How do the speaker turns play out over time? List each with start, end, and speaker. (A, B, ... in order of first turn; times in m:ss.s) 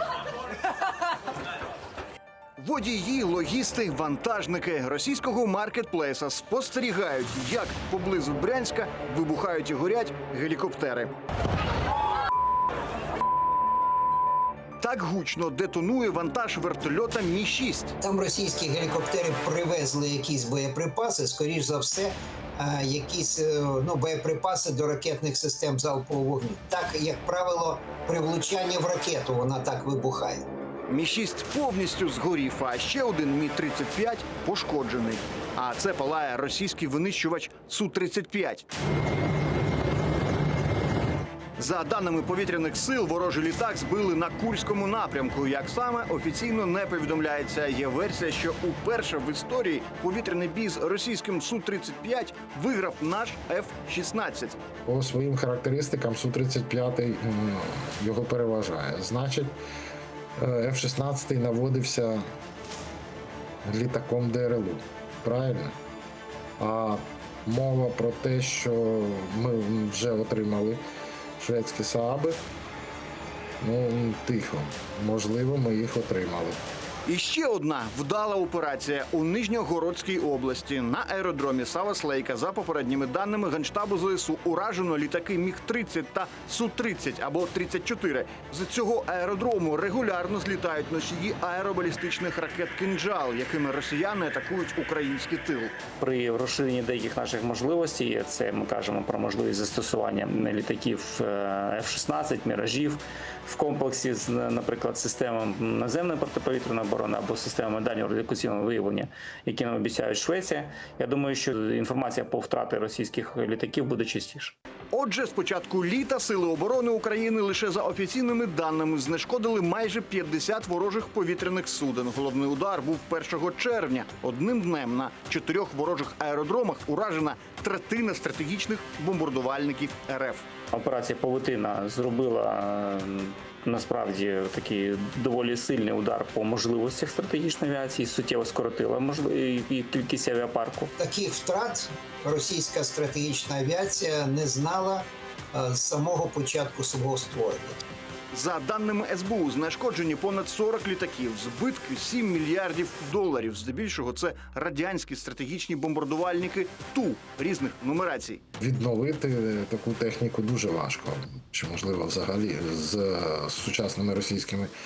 0:02.6-0:11.1 A
0:14.8-0:17.9 A
0:18.0-0:30.4 B
0:30.9-0:38.6 A
0:41.6-0:54.6 A
0:54.8-0:59.6 C
1:00.4-1:02.3 C
1:03.6-1:05.8 C
1:06.6-1:10.8 C
1:11.4-1:12.4 C
1:13.6-1:16.6 C
1:17.0-1:35.8 A
1:36.0-1:54.6 D
1:54.9-2:10.5 A
2:10.7-2:20.9 D
2:21.0-2:27.8 B
2:28.3-2:38.4 A
2:38.6-2:44.7 C